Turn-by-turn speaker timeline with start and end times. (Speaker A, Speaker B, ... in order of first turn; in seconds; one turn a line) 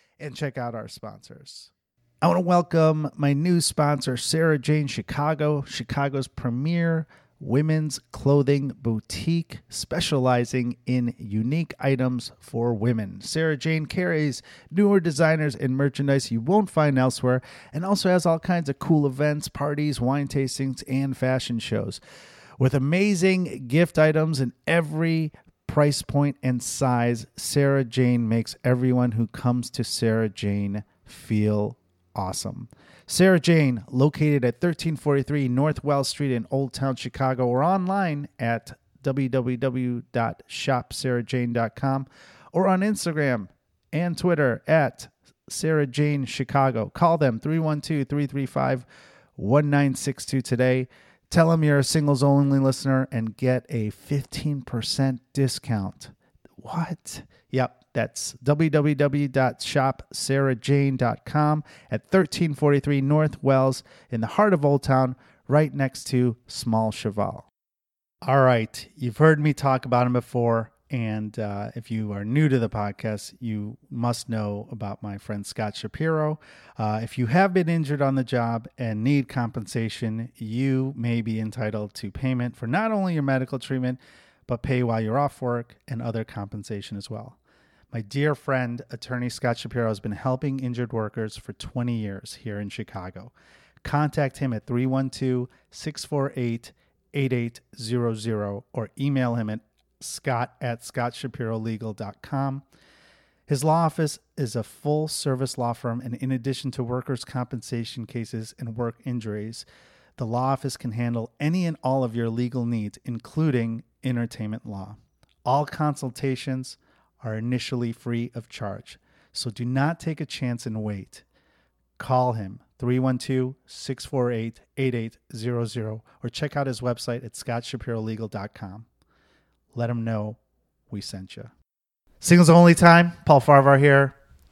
Speaker A: 0.2-1.7
Speaker A: 2.2-22.0
Speaker A: 22.6-67.5
Speaker A: 68.2-87.4
Speaker A: 87.9-93.3
Speaker A: 93.8-102.6
Speaker A: 103.5-109.7
Speaker A: 110.2-121.2
Speaker A: 122.0-128.8
Speaker A: 129.7-130.4
Speaker A: 130.9-131.5
Speaker A: 132.2-134.2